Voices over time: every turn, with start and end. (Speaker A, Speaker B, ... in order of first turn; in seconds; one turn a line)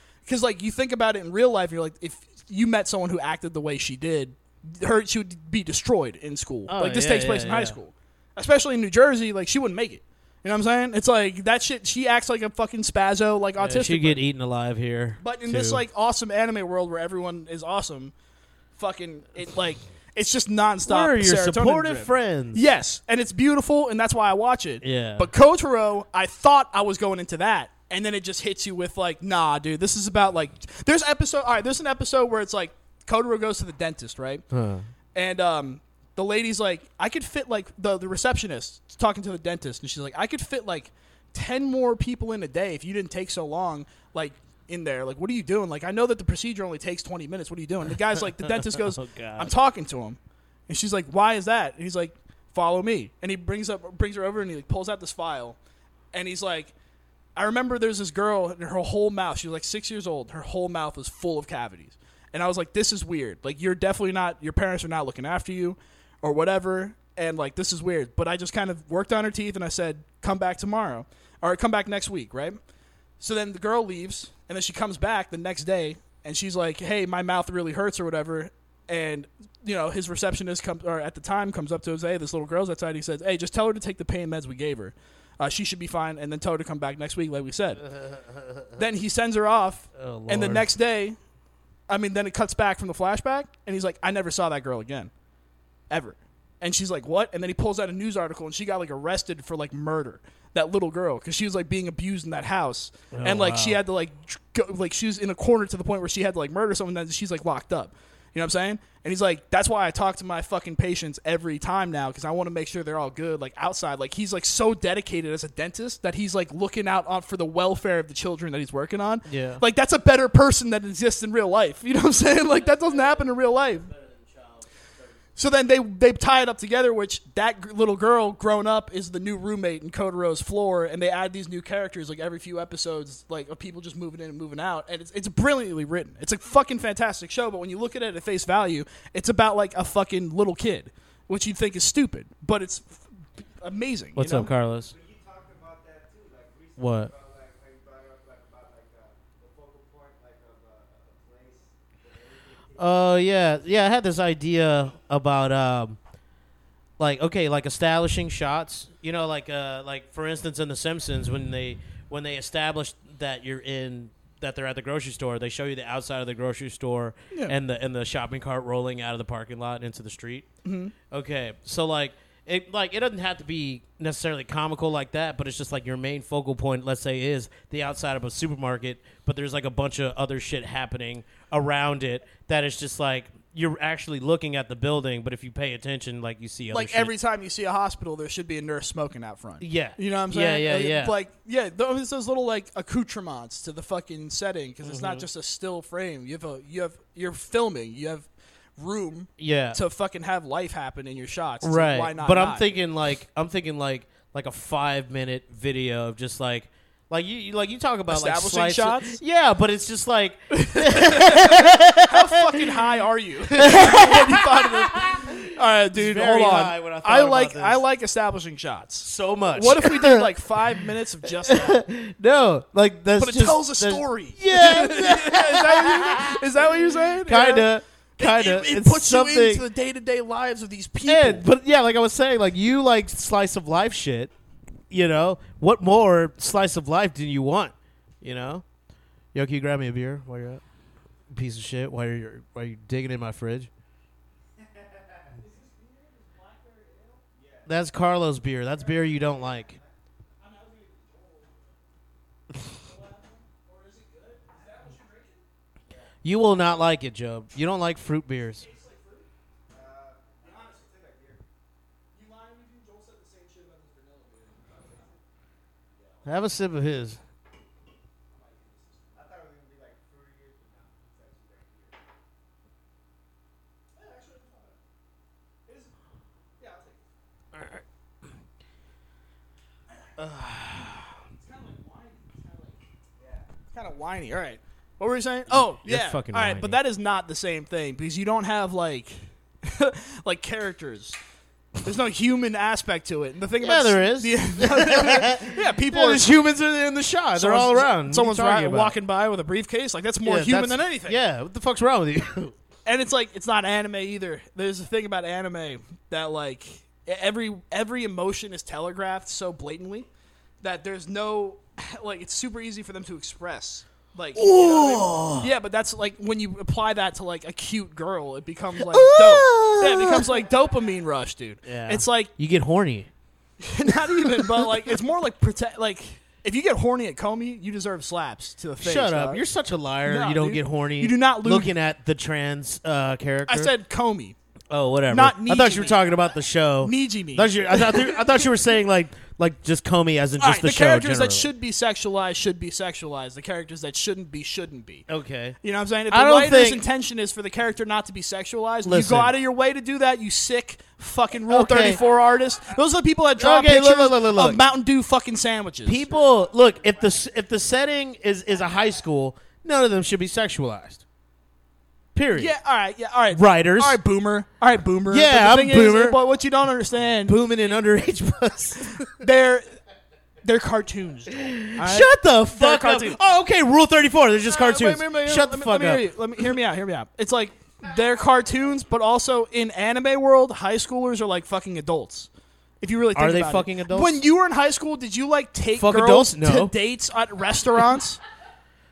Speaker A: 0.3-14.2
Speaker B: 6.7-7.8
Speaker B: 13.6-15.8
Speaker A: 15.2-18.1
Speaker A: 18.8-34.5
Speaker B: 20.9-22.7
Speaker B: 24.8-25.3
Speaker B: 34.5-34.9
Speaker A: 35.1-55.6
Speaker B: 48.2-49.5
Speaker A: 56.1-56.7
Speaker A: 57.4-72.6
Speaker A: 73.2-87.9
Speaker B: 87.8-88.8
Speaker A: 88.8-91.2
Speaker B: 90.0-90.7
Speaker A: 91.9-95.1
Speaker A: 95.9-123.9
Speaker B: 103.1-103.8
Speaker B: 119.3-119.6
Speaker C: 122.5-125.4
Speaker A: 125.4-143.0
Speaker A: 143.6-144.5
Speaker B: 144.2-144.9
Speaker C: 144.8-153.6
Speaker B: 146.8-147.1
Speaker B: 152.8-156.0
Speaker B: 157.0-170.5
Speaker A: 170.6-170.9
Speaker B: 171.1-187.1
Speaker A: 186.7-202.7
Speaker B: 189.6-191.2
Speaker B: 194.8-195.3
Speaker B: 199.4-199.8
Speaker B: 201.6-212.7
Speaker A: 208.1-209.2
Speaker A: 210.5-221.8
Speaker B: 213.5-215.4
Speaker B: 215.9-217.8
Speaker B: 219.0-220.3
Speaker B: 221.4-229.7
Speaker A: 223.2-231.5
Speaker B: 231.1-234.3
Speaker B: 234.9-238.7
Speaker B: 239.3-240.6
Speaker B: 241.3-243.7
Speaker C: 244.6-247.8
Speaker A: 245.4-247.2
Speaker B: 247.7-249.8
Speaker C: 248.7-249.9
Speaker A: 250.4-251.6
Speaker A: 252.8-255.4
Speaker C: 254.5-254.8
Speaker C: 255.9-256.1
Speaker B: 256.2-258.7
Speaker A: 258.6-259.3
Speaker C: 259.7-261.4
Speaker A: 260.4-260.8
Speaker A: 262.1-265.1
Speaker C: 264.6-265.2
Speaker C: 265.9-266.2
Speaker B: 266.2-267.2
Speaker A: 268.3-269.3
Speaker C: 269.1-272.0
Speaker A: 273.9-274.8
Speaker A: 275.7-275.9
Speaker A: 276.6-277.0
Speaker B: 277.5-277.8
Speaker B: 280.2-281.1
Speaker A: 281.4-282.8
Speaker C: 283.2-283.5
Speaker A: 283.7-291.2
Speaker B: 285.5-286.8
Speaker A: 291.8-296.3
Speaker B: 293.6-299.0
Speaker A: 297.4-301.2
Speaker B: 300.2-302.6
Speaker A: 302.9-310.1
Speaker A: 310.6-322.3
Speaker B: 314.4-315.5
Speaker B: 318.8-320.4
Speaker B: 321.6-323.1
Speaker A: 323.6-329.4
Speaker B: 324.1-324.9
Speaker B: 328.8-333.7
Speaker A: 330.0-331.7
Speaker A: 333.5-334.4
Speaker B: 334.7-341.5
Speaker A: 335.1-336.1
Speaker A: 336.8-338.4
Speaker A: 340.4-345.1
Speaker B: 345.1-345.6
Speaker A: 345.6-356.1
Speaker B: 346.1-346.9
Speaker B: 348.8-349.4
Speaker B: 351.5-352.0
Speaker B: 353.4-354.6
Speaker B: 355.9-361.0
Speaker C: 356.1-357.3
Speaker B: 362.1-362.6
Speaker A: 362.4-367.4
Speaker B: 363.3-364.0
Speaker B: 365.1-366.2
Speaker B: 367.2-369.2
Speaker A: 369.2-369.7
Speaker A: 370.4-373.2
Speaker B: 371.4-376.4
Speaker A: 374.5-382.3
Speaker A: 382.8-388.2
Speaker B: 383.1-384.2
Speaker B: 385.8-386.8